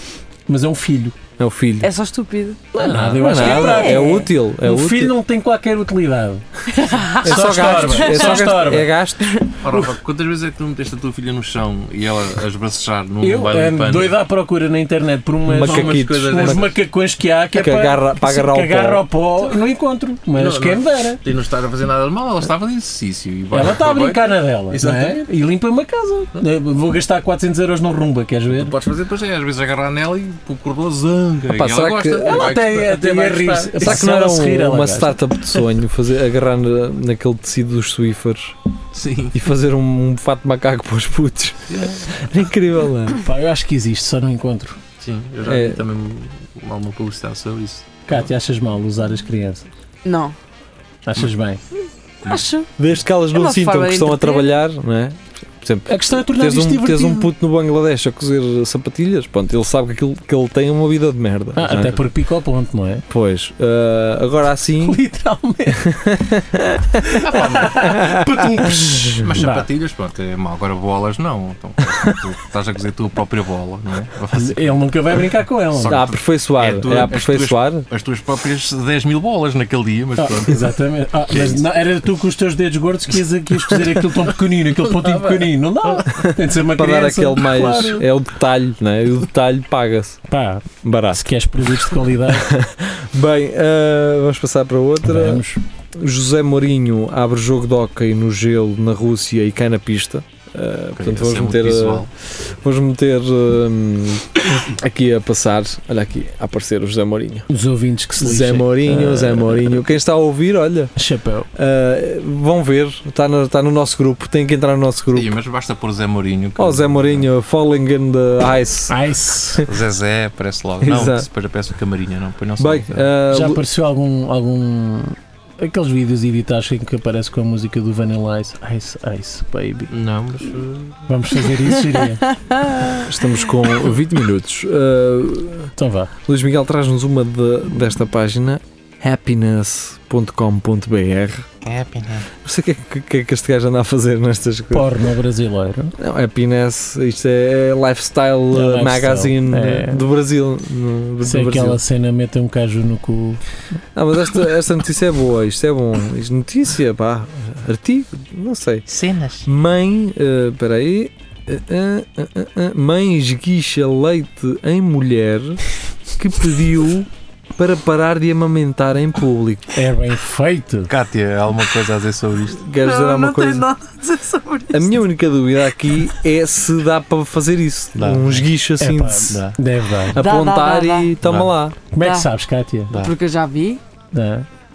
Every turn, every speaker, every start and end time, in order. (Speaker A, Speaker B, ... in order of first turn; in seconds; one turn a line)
Speaker A: 0.5-1.2
Speaker B: 1.4-1.9
Speaker C: 1.8-2.6
Speaker A: 2.7-6.4
Speaker D: 2.8-3.3
Speaker B: 3.1-5.1
Speaker C: 3.3-4.3
Speaker C: 6.7-8.5
Speaker A: 7.2-8.9
Speaker B: 7.2-9.5
Speaker D: 9.6-14.2
Speaker A: 13.2-21.2
Speaker B: 15.5-16.7
Speaker D: 15.5-16.7
Speaker B: 17.5-19.0
Speaker D: 20.4-25.2
Speaker A: 23.5-28.7
Speaker D: 28.5-34.0
Speaker B: 31.5-32.5
Speaker A: 32.2-35.2
Speaker B: 33.8-38.5
Speaker D: 38.9-39.4
Speaker B: 39.3-43.2
Speaker D: 41.7-42.0
Speaker A: 43.2-44.8
Speaker D: 45.0-48.2
Speaker B: 45.4-45.8
Speaker A: 48.1-49.7
Speaker C: 50.0-50.3
Speaker A: 51.0-51.6
Speaker C: 52.2-52.7
Speaker B: 52.8-62.0
Speaker C: 53.3-54.5
Speaker A: 55.9-57.3
Speaker A: 61.5-63.0
Speaker D: 61.6-62.0
Speaker B: 63.1-65.0
Speaker A: 64.8-65.9
Speaker B: 65.8-67.2
Speaker A: 67.0-69.7
Speaker D: 67.2-68.2
Speaker B: 67.8-69.3
Speaker D: 69.2-80.8
Speaker A: 74.3-76.1
Speaker B: 75.9-77.8
Speaker A: 80.2-88.0
Speaker D: 81.3-81.6
Speaker D: 83.7-84.2
Speaker D: 84.9-85.5
Speaker B: 86.2-90.2
Speaker A: 90.3-92.5
Speaker B: 90.8-95.4
Speaker A: 95.0-95.6
Speaker B: 95.9-107.5
Speaker D: 100.9-102.1
Speaker A: 107.5-109.8
Speaker B: 108.2-110.9
Speaker A: 111.0-111.5
Speaker B: 111.5-115.3
Speaker D: 115.1-117.3
Speaker B: 116.6-119.0
Speaker A: 118.9-119.7
Speaker D: 119.6-123.1
Speaker B: 120.8-121.3
Speaker B: 122.6-123.6
Speaker A: 123.3-129.9
Speaker D: 129.9-131.0
Speaker A: 131.1-132.2
Speaker C: 132.3-133.1
Speaker B: 133.0-135.7
Speaker A: 135.8-136.1
Speaker B: 136.2-141.5
Speaker D: 141.6-142.3
Speaker B: 142.4-144.9
Speaker A: 144.7-145.9
Speaker B: 146.0-151.8
Speaker A: 148.5-150.0
Speaker A: 151.2-153.4
Speaker B: 153.9-158.8
Speaker D: 158.9-159.5
Speaker B: 159.4-169.8
Speaker A: 169.7-170.9
Speaker D: 170.9-172.6
Speaker B: 172.6-173.7
Speaker C: 172.8-174.9
Speaker B: 174.7-179.4
Speaker D: 177.9-178.5
Speaker A: 178.8-180.2
Speaker D: 179.3-179.6
Speaker B: 180.1-181.8
Speaker C: 180.2-181.1
Speaker D: 181.2-181.5
Speaker A: 181.9-182.9
Speaker C: 182.0-182.3
Speaker C: 182.9-183.8
Speaker A: 184.1-184.5